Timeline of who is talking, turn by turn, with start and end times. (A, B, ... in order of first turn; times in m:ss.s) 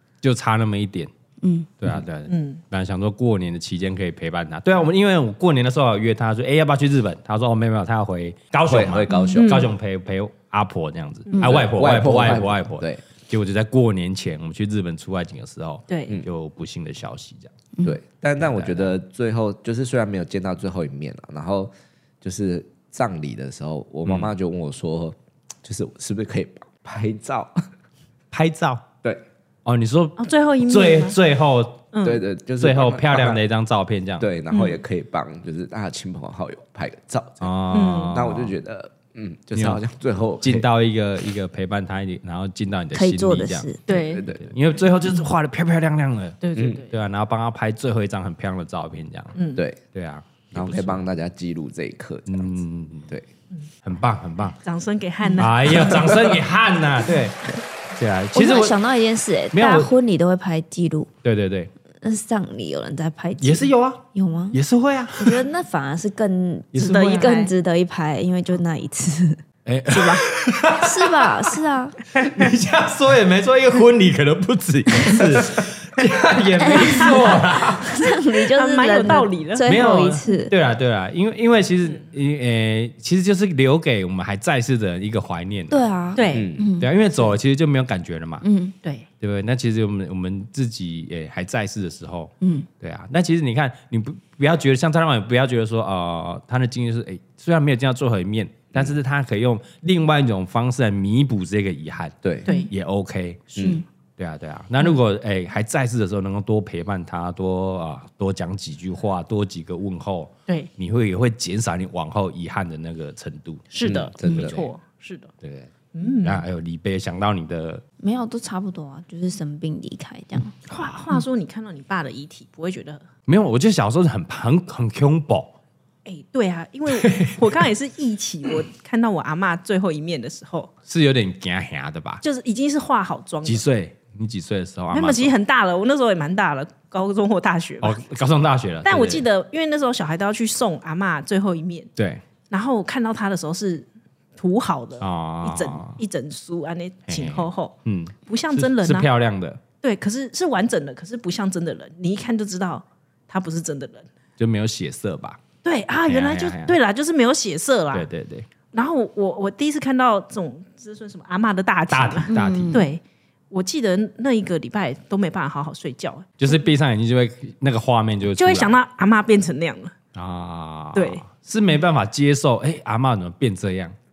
0:00.2-0:01.1 A
0:01.4-0:01.7 B
0:01.8-0:17.5 A
0:02.3-0:02.6 C
0:08.6-0:09.6 D
0:09.1-0:09.6 B
0:09.2-0:09.6 C
0:11.4-0:13.0 D
0:15.9-0:16.2 C
0:17.8-0:27.5 D
0:18.4-0:18.9 A
0:24.0-0:24.3 A
0:28.3-0:28.9 A
0:29.6-0:31.8 A
0:30.2-0:31.2 C
0:31.9-0:32.2 C
0:32.0-0:33.4 D
0:32.6-0:34.2 A
0:34.2-0:40.7 D
0:37.4-0:38.5 A
0:37.7-0:38.2 C
0:39.6-0:39.8 A
0:40.4-0:49.3 A
0:42.9-0:43.8 B
0:43.9-0:44.3 C
0:44.1-0:44.5 D
0:46.4-0:46.9 C
0:46.5-0:46.8 D
0:49.3-0:49.6 C
0:49.6-0:49.8 D
0:49.9-0:51.0 A
0:50.5-0:52.5 D
0:52.3-0:53.1 A
0:53.8-0:54.6 A
0:54.6-0:56.1 C
0:55.4-0:58.8 A
0:58.3-1:01.1 B
0:59.5-0:59.9 A
1:01.2-1:01.7 A
1:02.0-1:04.6 B
1:03.4-1:05.4 A
1:05.1-1:10.2 B
1:06.7-1:07.2 A
1:06.8-1:07.5 C
1:09.6-1:11.5 A
1:10.8-1:12.0 B
1:12.1-1:18.0 A
1:16.6-1:20.5 B
1:16.8-1:17.1 C
1:18.0-1:19.8 C
1:19.6-1:25.8 A
1:25.7-1:26.9 B
1:26.2-1:26.5 C
1:26.3-1:26.7 D
1:26.8-1:28.4 A
1:28.4-1:28.8 B
1:29.2-1:42.1 A
1:32.4-1:32.7 B
1:42.7-1:54.7 A
1:43.5-1:43.8 D
1:53.7-1:55.3 C
1:53.8-1:54.6 D
1:55.4-1:55.7 A
1:55.9-1:56.4 C
1:56.2-1:57.8 A
1:58.0-2:00.6 B
2:00.7-2:03.0 C
2:00.7-2:01.0 A
2:03.3-2:05.5 A
2:06.0-2:10.7 C
2:06.9-2:07.7 A
2:10.9-2:12.2 A
2:12.2-2:13.6 C
2:13.4-2:15.3 A
2:14.9-2:18.0 C
2:17.8-2:19.2 A
2:18.8-2:21.9 C
2:22.0-2:22.2 A
2:22.5-2:27.7 C
2:25.0-2:26.0 A
2:27.1-2:29.6 A
2:28.2-2:29.1 C
2:29.8-2:34.1 C
2:34.4-2:35.4 A
2:35.6-2:38.0 C
2:36.1-2:36.8 A
2:37.9-2:38.5 A
2:38.7-2:46.5 C
2:41.9-2:42.8 A
2:42.3-2:42.9 B
2:46.4-2:48.8 A
2:48.3-2:49.9 C
2:50.1-2:53.9 A
2:50.9-2:51.2 C